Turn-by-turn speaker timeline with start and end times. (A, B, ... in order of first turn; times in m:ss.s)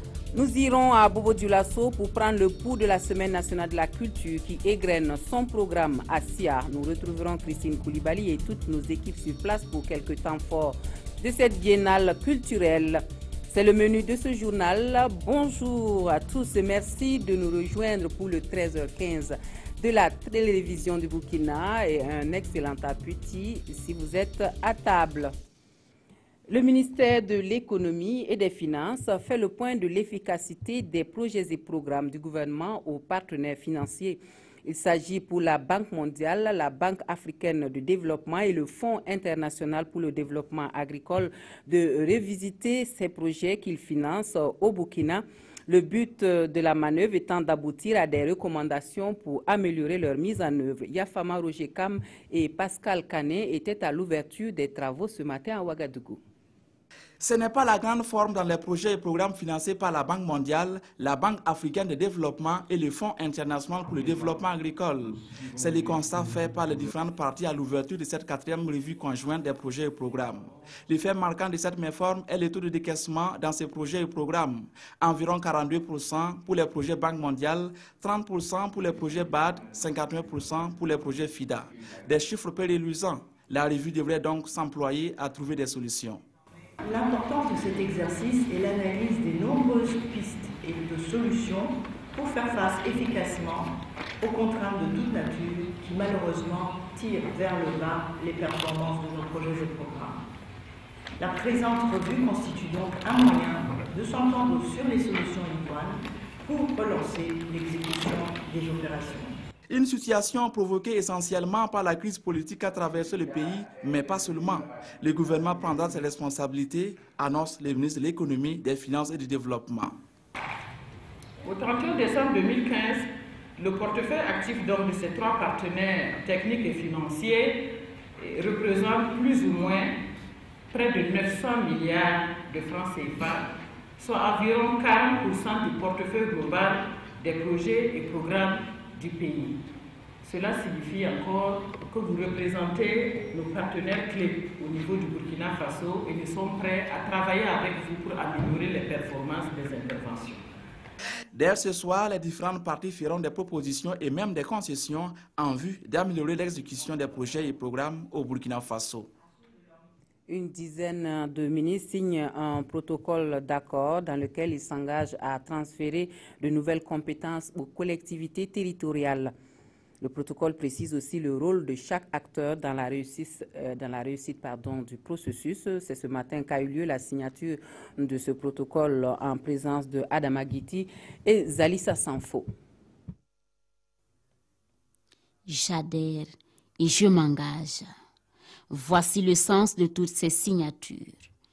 0:00.3-0:25.3 A
0:26.5-0:56.2 A
0:57.2-1:26.2 B
1:26.8-1:33.7 C
1:34.2-1:40.2 C
1:41.2-1:49.3 C
1:49.7-2:00.0 B
2:01.4-2:07.6 D
2:08.2-2:09.9 D
2:10.7-2:13.4 D
2:14.0-2:19.6 D
2:20.2-2:30.4 D
2:31.3-2:39.1 B
2:40.3-2:49.3 A
2:50.0-3:02.5 A
3:05.5-3:07.9 E
3:08.7-3:11.2 E